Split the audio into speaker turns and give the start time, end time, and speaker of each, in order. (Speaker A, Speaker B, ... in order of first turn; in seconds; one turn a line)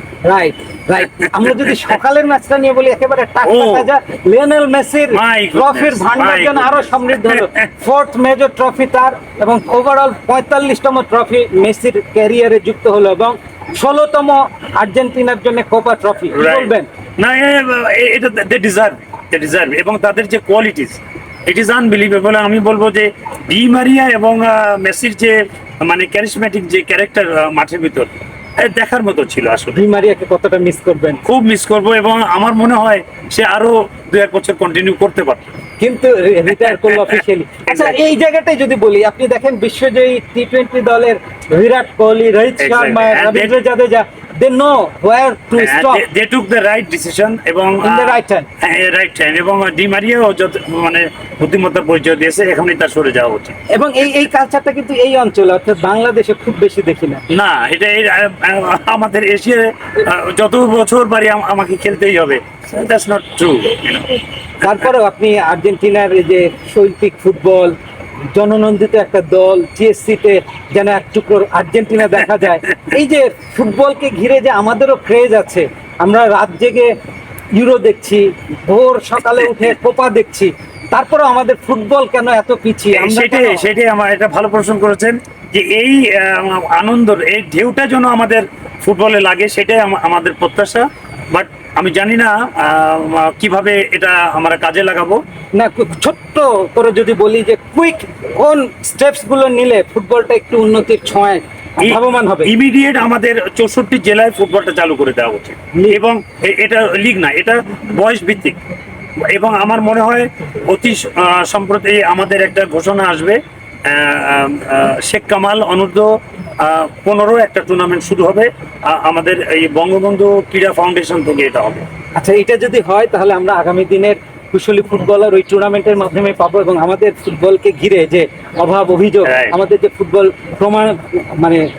Speaker A: 0.2-16.9
Speaker B: 1.1-1.9
Speaker B: 3.4-3.9
Speaker B: 5.1-7.7
Speaker B: 16.3-29.8
Speaker A: 29.7-31.2
Speaker B: 31.2-35.5
Speaker A: 35.8-46.0
Speaker B: 36.5-38.0
Speaker B: 42.6-43.6
Speaker B: 45.6-53.6
Speaker A: 47.8-48.5
Speaker A: 53.7-57.2
Speaker B: 57.3-64.8
Speaker A: 64.6-67.8
Speaker A: 68.3-76.9
Speaker A: 77.6-83.7
Speaker B: 79.4-79.7
Speaker B: 82.9-95.2
Speaker A: 95.6-102.5
Speaker B: 101.8-108.6
Speaker A: 105.7-106.0
Speaker B: 109.2-121.9
Speaker A: 122.2-131.7
Speaker B: 129.2-129.6